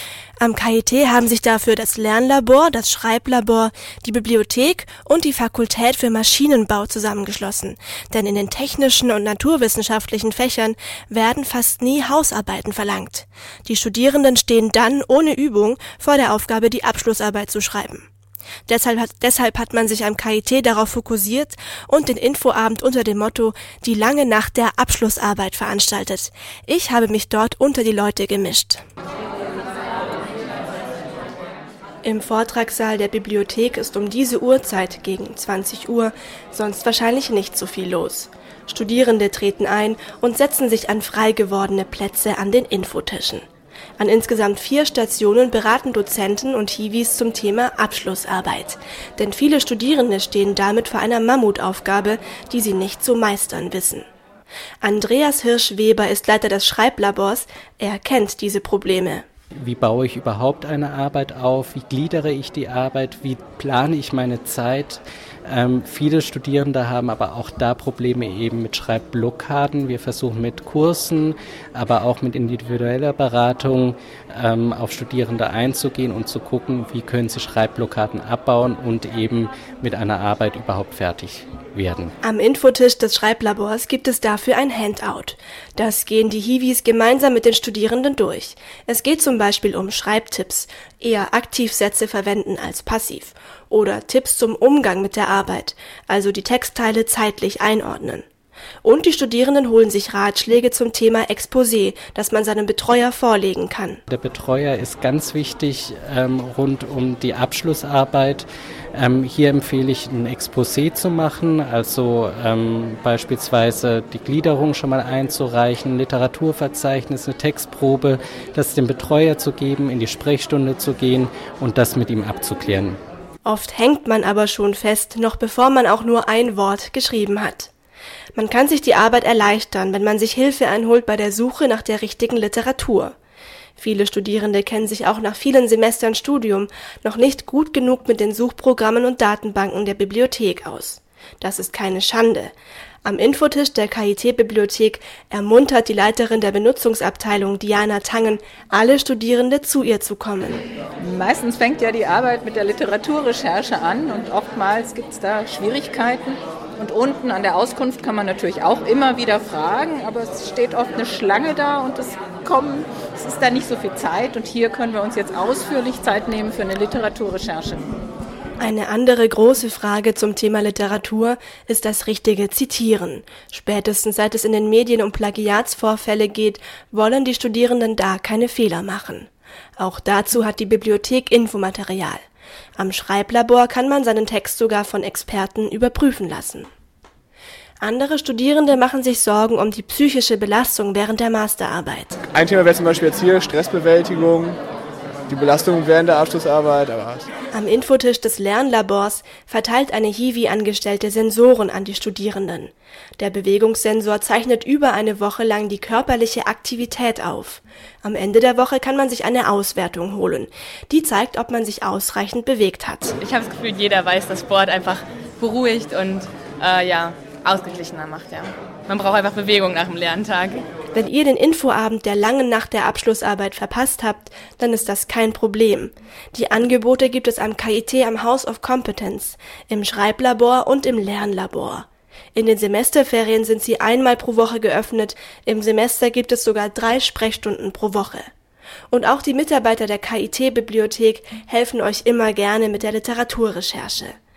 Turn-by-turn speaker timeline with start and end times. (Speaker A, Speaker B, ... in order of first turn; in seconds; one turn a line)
Speaker A: 0.4-18.1
Speaker A: 18.7-28.8
Speaker A: 32.0-43.5
Speaker A: 44.0-54.0
Speaker A: 54.8-59.2
Speaker B: 59.6-82.1
Speaker A: 82.2-98.2
Speaker A: 98.8-104.0
Speaker B: 104.1-123.0
Speaker A: 123.4-127.7
Speaker A: 128.3-133.1
Speaker A: 133.8-142.5
Speaker A: 143.0-150.6
Speaker C: 151.0-167.9
Speaker A: 168.6-182.2
Speaker A: 182.8-186.7
Speaker A: 187.8-192.1
Speaker D: 192.3-194.6
Speaker D: 195.3-197.3
Speaker A: 197.5-213.2
Speaker E: 213.2-220.7
Speaker A: 220.9-238.3
Speaker A: 238.9-244.1